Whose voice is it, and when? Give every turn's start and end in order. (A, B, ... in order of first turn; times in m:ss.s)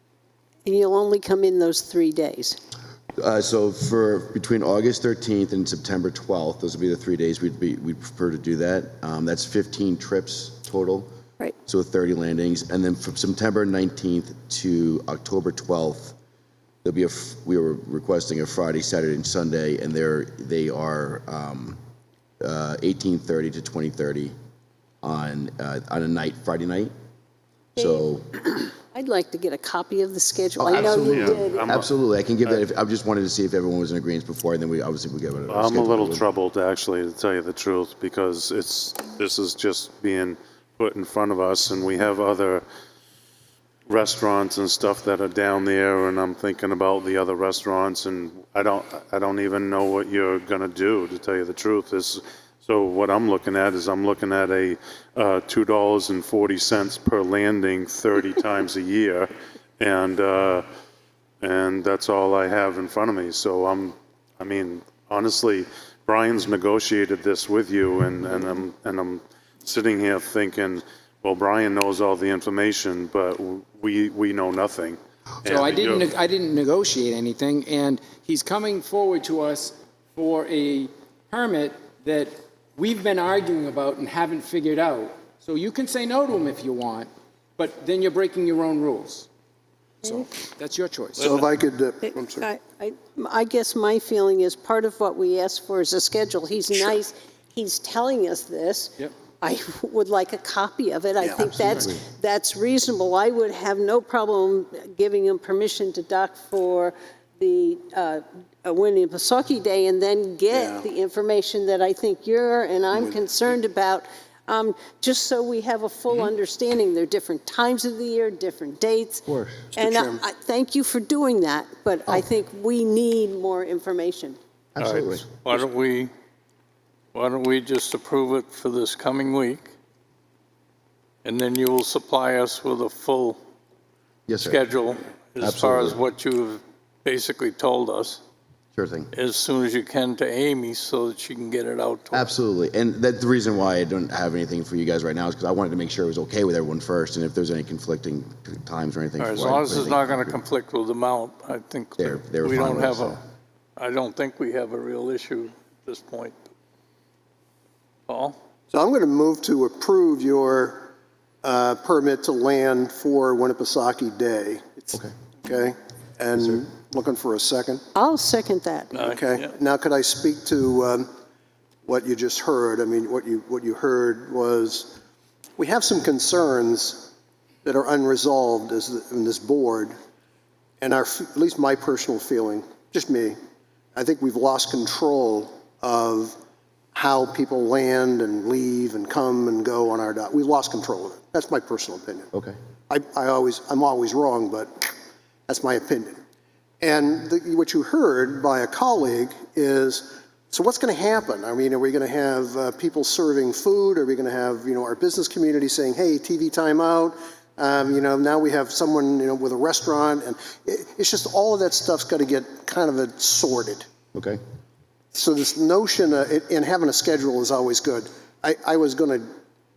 0:00.6-0:02.6 A
0:03.2-0:11.1 B
0:11.7-0:16.2 B
0:16.8-0:21.8 B
0:22.4-0:24.3 B
0:25.0-0:26.9 B
0:27.8-0:28.3 B
0:27.8-0:31.6 A
0:30.6-0:36.2 B
0:30.8-0:31.9 C
0:35.5-0:42.6 C
0:43.9-1:00.6 C
1:01.4-1:16.1 C
1:15.4-1:29.3 D
1:30.0-1:31.4 D
1:31.2-1:32.4 E
1:32.0-1:59.2 A
1:41.2-1:41.8 E
1:50.5-1:50.8 E
1:59.3-1:59.6 B
1:59.7-2:00.2 E
1:59.8-2:04.4 A
2:04.8-2:05.3 B
2:04.8-2:06.1 F
2:07.1-2:09.7 F
2:11.2-2:13.4 F
2:14.3-2:14.6 B
2:14.4-2:18.2 F
2:15.4-2:16.0 B
2:18.8-2:19.1 B
2:19.1-2:22.3 F
2:22.1-2:30.4 B
2:29.2-2:33.2 F
2:32.0-2:33.2 B
2:33.8-2:36.4 F
2:38.1-2:38.4 F
2:38.7-2:40.9 E
2:41.4-2:47.8 E
2:47.9-2:48.9 A
2:48.9-2:51.1 E
2:49.0-2:49.5 F
2:51.8-2:55.0 E
2:55.6-2:57.1 E
2:57.6-2:59.9 E
3:00.8-3:03.4 E
3:03.9-3:06.4 E
3:06.9-3:12.3 E
3:12.9-3:14.9 E
3:15.5-3:16.2 E
3:16.8-3:33.8 E
3:34.1-3:34.4 B
3:35.1-3:39.3 E